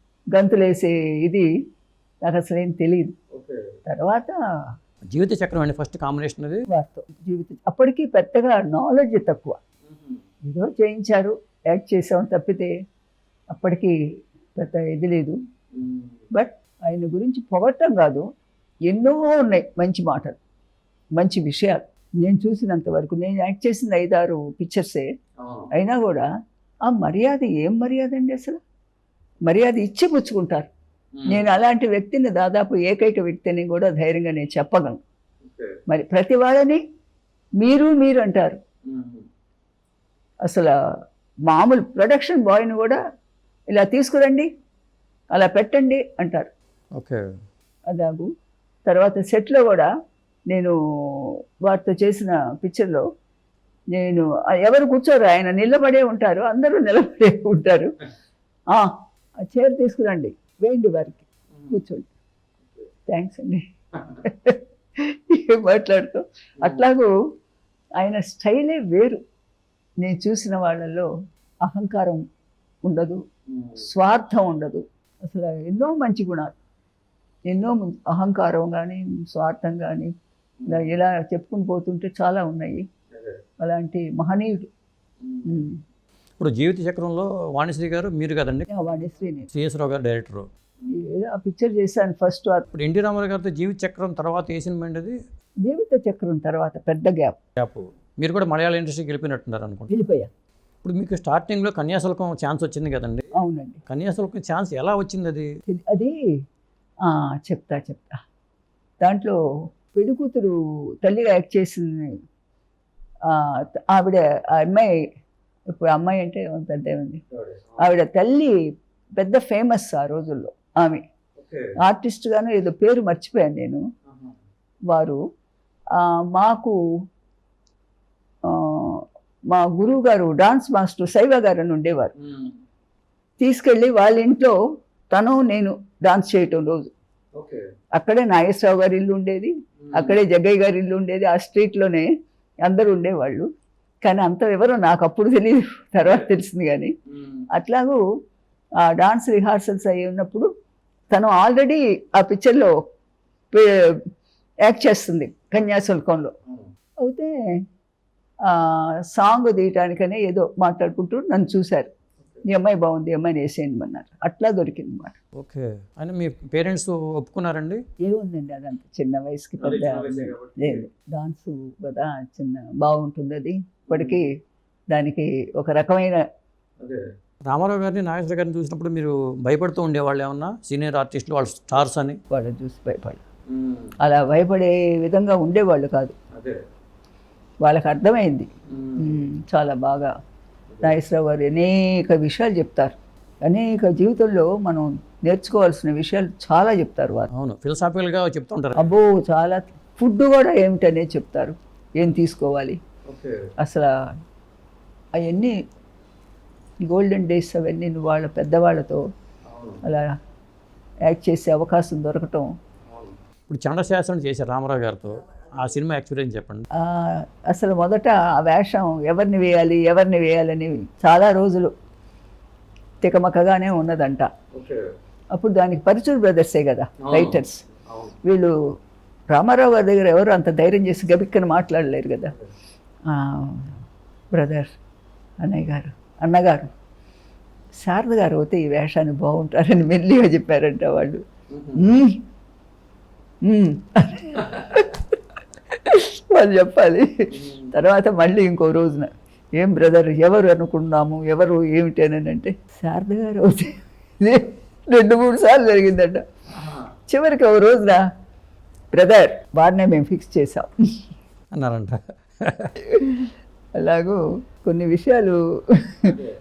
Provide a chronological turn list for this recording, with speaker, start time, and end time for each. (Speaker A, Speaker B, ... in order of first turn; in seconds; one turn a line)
Speaker A: 0.3-1.5
Speaker A: 2.2-3.1
Speaker B: 3.3-3.7
Speaker A: 3.9-4.4
Speaker B: 5.1-6.7
Speaker A: 6.7-9.6
Speaker B: 9.9-10.2
Speaker A: 10.4-12.7
Speaker A: 13.5-13.9
Speaker A: 14.6-15.4
Speaker B: 15.8-16.1
Speaker A: 16.3-18.2
Speaker A: 18.9-20.4
Speaker A: 21.2-25.1
Speaker B: 25.4-25.7
Speaker A: 25.7-26.2
Speaker A: 26.9-28.6
Speaker A: 29.4-30.7
Speaker B: 31.2-31.5
Speaker A: 31.3-35.0
Speaker B: 35.4-35.8
Speaker A: 35.9-36.8
Speaker A: 37.6-38.6
Speaker B: 38.9-39.2
Speaker A: 40.5-40.7
Speaker A: 41.5-43.0
Speaker A: 43.7-44.5
Speaker A: 45.3-46.5
Speaker B: 47.0-47.2
Speaker A: 47.9-48.3
Speaker A: 48.9-49.9
Speaker A: 50.5-53.0
Speaker A: 54.0-57.9
Speaker A: 59.4-62.1
Speaker A: 63.1-67.1
Speaker A: 68.0-69.2
Speaker A: 70.0-71.1
Speaker A: 71.7-72.2
Speaker A: 72.8-73.2
Speaker B: 73.5-73.8
Speaker A: 73.8-76.6
Speaker A: 77.5-80.1
Speaker B: 80.6-81.0
Speaker A: 80.7-82.8
Speaker B: 83.1-83.4
Speaker A: 83.6-84.7
Speaker B: 85.2-85.6
Speaker A: 85.5-85.8
Speaker B: 86.4-88.7
Speaker A: 88.7-89.5
Speaker B: 89.5-90.9
Speaker A: 90.9-92.7
Speaker B: 92.7-95.2
Speaker A: 95.7-97.4
Speaker B: 97.6-100.0
Speaker A: 99.9-100.3
Speaker B: 100.8-103.2
Speaker A: 103.4-103.8
Speaker B: 103.9-105.5
Speaker A: 105.7-106.2
Speaker A: 107.0-108.2
Speaker A: 109.0-109.4
Speaker A: 109.9-112.2
Speaker A: 113.3-114.9
Speaker A: 115.7-117.2
Speaker B: 117.3-117.9
Speaker A: 117.8-118.6
Speaker A: 119.2-121.0
Speaker B: 121.4-121.7
Speaker A: 121.8-123.8
Speaker B: 124.1-124.3
Speaker A: 124.9-125.2
Speaker A: 126.0-126.8
Speaker A: 128.5-132.1
Speaker B: 132.2-132.6
Speaker A: 133.4-134.6
Speaker A: 135.1-136.9
Speaker B: 137.4-137.6
Speaker A: 138.0-142.1
Speaker B: 139.8-140.2
Speaker A: 142.6-143.5
Speaker A: 144.0-146.9
Speaker B: 147.1-147.4
Speaker A: 147.5-148.0
Speaker A: 148.8-150.5
Speaker A: 151.1-152.7
Speaker A: 153.5-154.0
Speaker A: 154.6-156.3
Speaker A: 157.0-157.4
Speaker A: 158.5-161.9
Speaker A: 162.5-165.2
Speaker B: 165.4-167.8
Speaker A: 168.0-174.3
Speaker B: 169.6-170.8
Speaker B: 173.9-174.2
Speaker A: 174.9-176.2
Speaker B: 176.8-182.2
Speaker A: 182.3-183.2
Speaker B: 183.5-183.9
Speaker A: 184.0-186.2
Speaker A: 187.6-190.1
Speaker B: 188.7-189.2
Speaker A: 190.8-192.9
Speaker A: 193.4-197.3
Speaker B: 197.3-198.9
Speaker A: 198.8-202.8
Speaker B: 203.1-203.4
Speaker A: 203.6-203.9
Speaker A: 205.2-205.5
Speaker A: 206.9-209.0
Speaker B: 209.5-209.8
Speaker A: 211.1-212.5
Speaker B: 212.9-216.7
Speaker A: 216.8-221.7
Speaker A: 223.0-224.3
Speaker B: 224.5-224.8
Speaker A: 225.3-227.6
Speaker B: 227.0-228.2
Speaker A: 228.2-228.5
Speaker A: 229.3-232.3
Speaker A: 233.1-233.8
Speaker A: 234.3-234.7
Speaker A: 235.4-236.7
Speaker A: 237.8-241.2
Speaker B: 241.5-242.0
Speaker A: 241.8-242.2
Speaker A: 243.4-245.0
Speaker A: 245.8-247.1
Speaker B: 247.3-247.7
Speaker A: 247.7-256.2
Speaker B: 256.6-256.9
Speaker A: 257.1-258.0
Speaker A: 258.9-260.7
Speaker B: 261.5-262.7
Speaker A: 262.8-266.1
Speaker B: 266.1-266.3